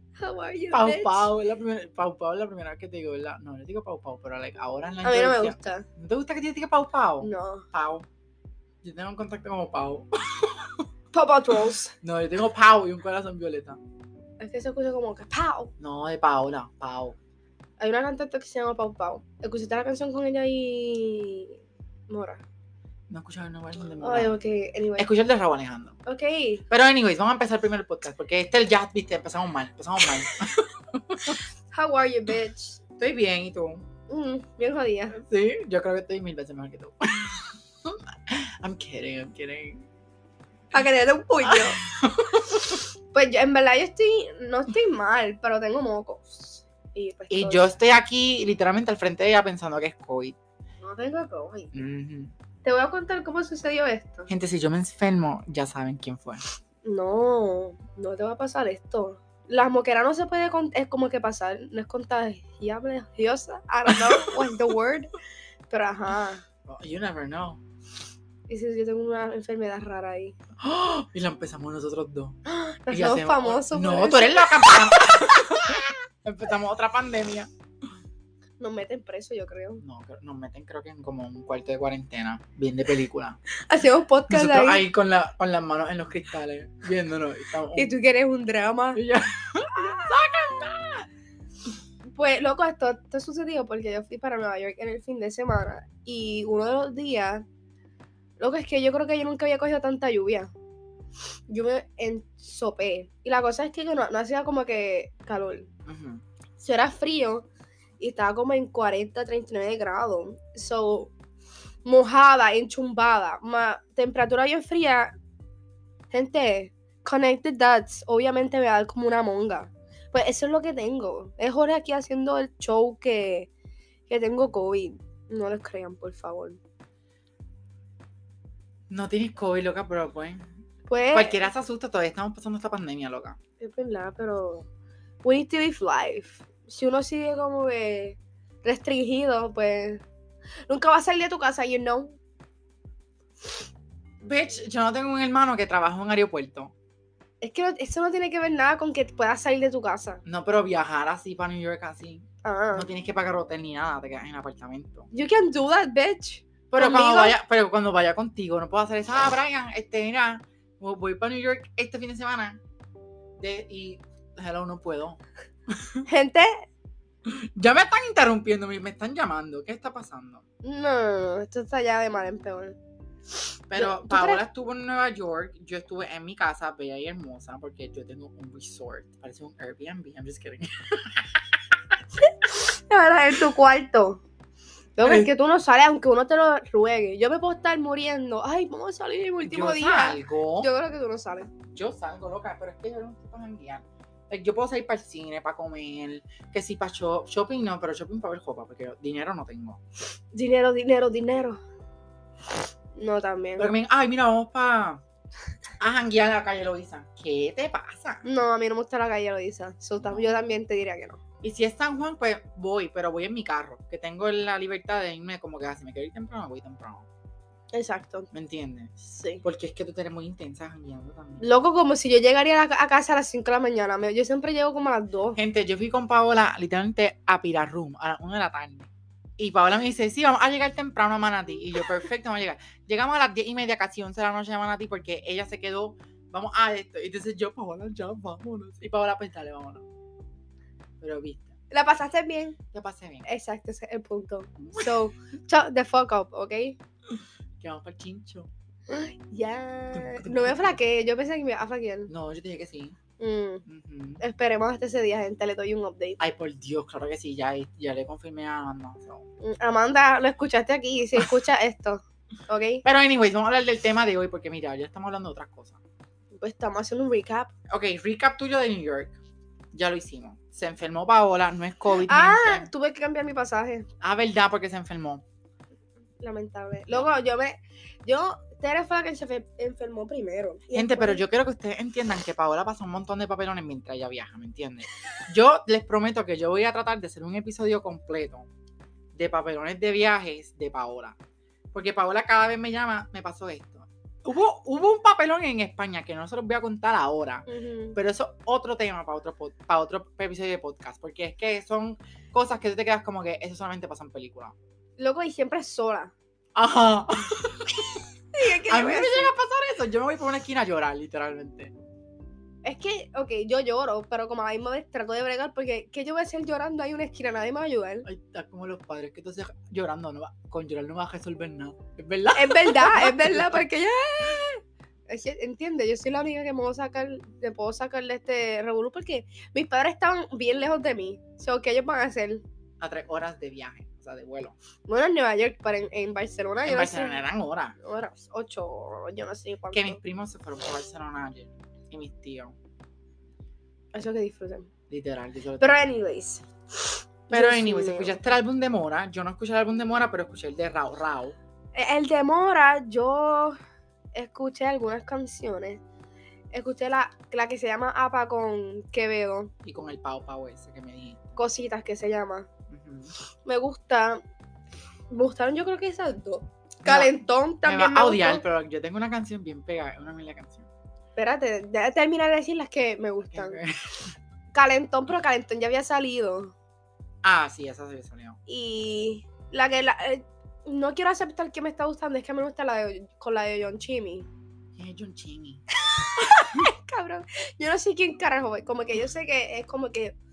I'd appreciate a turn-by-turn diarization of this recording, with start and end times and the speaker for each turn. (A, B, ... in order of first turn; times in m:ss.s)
0:00.2-0:01.3 A
0:00.7-0:08.1 B
0:05.0-0:05.9 A
0:07.2-0:07.6 A
0:08.8-0:10.9 B
0:11.1-0:11.9 A
0:12.0-0:13.8 B
0:14.4-0:15.7 A
0:15.8-0:17.2 B
0:17.8-0:21.6 A
0:22.1-0:22.4 A
0:23.1-0:24.4 B
0:24.0-0:25.1 A
0:25.0-0:26.0 B
0:26.1-0:26.6 A
0:26.7-0:31.4 B
0:31.7-0:32.8 A
0:33.0-0:33.9 B
0:34.1-0:35.2 A
0:35.2-0:39.9 B
0:40.7-0:41.8 A
0:41.4-0:42.8 B
0:43.1-0:47.7 A
0:47.3-0:50.4 B
0:50.8-0:51.8 A
0:51.7-0:52.3 B
0:52.6-0:54.3 A
0:54.3-0:56.4 B
0:56.8-1:05.1 A
1:03.9-1:04.5 B
1:05.7-1:06.4 A
1:06.7-1:07.6 B
1:08.5-1:10.4 A
1:10.6-1:12.4 B
1:12.5-1:15.3 A
1:12.9-1:17.5 B
1:18.6-1:19.8 A
1:19.8-1:23.4 B
1:23.7-1:24.8 A
1:24.3-1:27.9 B
1:27.8-1:29.0 A
1:29.0-1:31.1 B
1:29.8-1:30.2 A
1:32.1-1:37.4 A
1:38.4-1:40.5 A
1:41.5-1:45.7 A
1:45.9-1:46.2 B
1:46.6-1:47.4 A
1:48.0-1:51.1 A
1:51.8-1:55.2 A
1:56.1-2:03.5 A
2:04.1-2:06.6 A
2:08.9-2:10.5 B
2:10.9-2:11.5 A
2:11.1-2:13.4 B
2:13.6-2:14.7 A
2:15.2-2:20.0 A
2:20.7-2:22.2 A
2:24.2-2:26.7 B
2:27.4-2:30.2 A
2:30.2-2:35.1 B
2:32.4-2:32.9 A
2:35.1-2:37.4 A
2:36.7-2:42.6 B
2:43.4-2:46.0 B
2:46.1-2:46.7 A
2:47.3-2:50.4 B
2:50.6-2:52.8 A
2:53.7-3:01.8 B
2:53.8-2:54.4 A
3:02.2-3:04.2 A
3:05.0-3:11.5 A
3:05.0-3:05.3 B
3:09.4-3:10.7 B
3:11.6-3:19.8 B
3:20.3-3:21.6 A
3:23.0-3:23.7 A
3:23.6-3:25.0 B
3:25.8-3:28.2 B
3:28.2-3:31.2 A
3:30.0-3:30.4 B
3:31.4-3:37.1 B
3:37.7-3:38.3 A
3:38.3-3:41.4 B
3:39.0-3:39.4 A
3:41.4-3:45.4 A
3:45.4-3:59.8 B
4:01.0-4:01.5 B
4:01.7-4:02.6 A
4:02.7-4:03.3 B
4:03.2-4:06.8 A
4:04.6-4:05.0 B
4:07.6-4:08.5 B
4:08.9-4:12.1 A
4:09.9-4:10.8 B
4:12.1-4:13.0 B
4:13.2-4:13.6 A
4:13.7-4:14.2 B
4:14.2-4:16.2 A
4:16.2-4:19.2 B
4:19.4-4:22.8 A
4:22.8-4:25.8 B
4:26.4-4:27.5 A
4:27.7-4:29.2 B
4:29.7-4:32.7 B
4:32.1-4:33.9 A
4:34.0-4:35.2 B
4:36.2-4:41.2 A
4:40.7-4:48.5 B
4:49.1-4:51.2 B
4:51.7-5:04.5 B
4:57.5-4:58.0 A
5:05.0-5:06.1 A
5:06.6-5:08.0 B
5:08.3-5:09.3 A
5:08.7-5:11.7 B
5:12.6-5:18.1 A
5:18.0-5:23.6 B
5:22.4-5:32.4 A
5:32.8-5:34.6 B
5:34.9-5:37.2 A
5:36.6-5:37.8 B
5:37.8-5:40.0 A
5:39.7-5:42.6 B
5:43.9-5:44.7 A
5:44.9-5:45.9 B
5:45.6-5:48.2 A
5:47.3-5:51.4 B
5:51.8-5:53.6 A
5:54.1-5:55.8 A
5:56.5-5:59.5 A
5:59.6-6:01.2 B
6:01.4-6:02.5 A
6:02.7-6:03.1 B
6:03.5-6:04.2 A
6:05.1-6:08.4 A
6:06.8-6:10.7 B
6:11.2-6:13.6 A
6:13.3-6:14.1 B
6:14.5-6:16.5 A
6:17.2-6:18.4 B
6:18.5-6:24.3 A
6:24.8-6:25.6 B
6:25.9-6:30.2 A
6:26.4-6:26.7 B